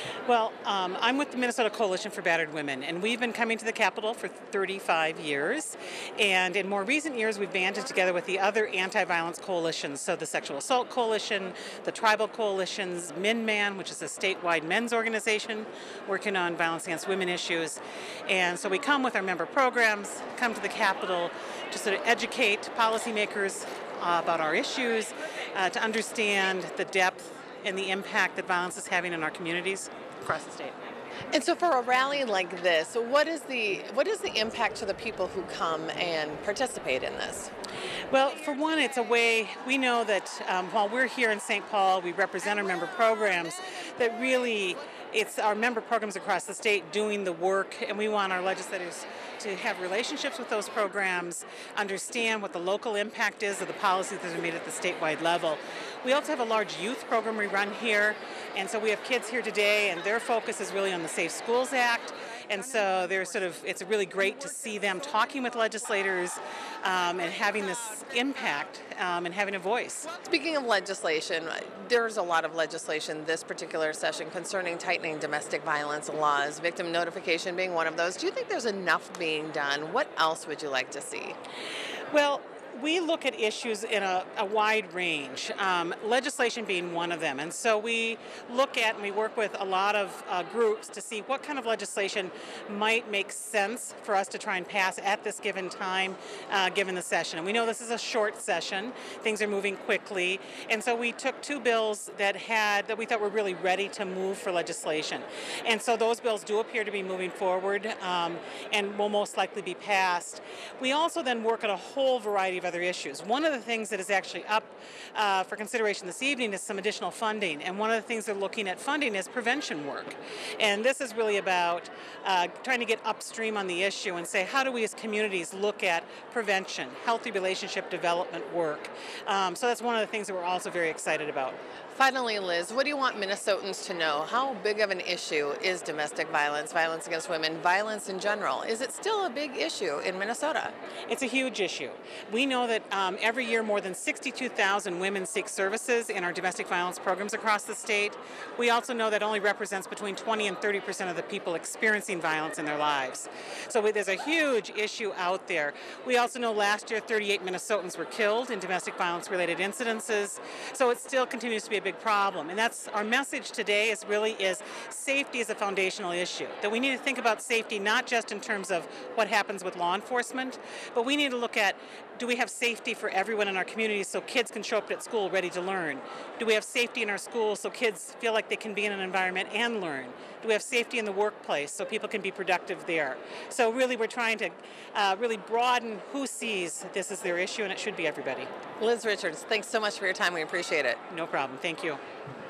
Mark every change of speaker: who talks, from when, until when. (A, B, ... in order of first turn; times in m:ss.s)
0:00.3-0:30.8 A
0:31.3-0:37.5 B
0:38.1-1:10.1 A
1:10.2-1:21.4 B
1:22.1-2:11.6 A
2:11.9-2:20.7 B
2:21.1-3:08.5 A
3:08.8-3:11.0 B
3:11.1-3:12.0 A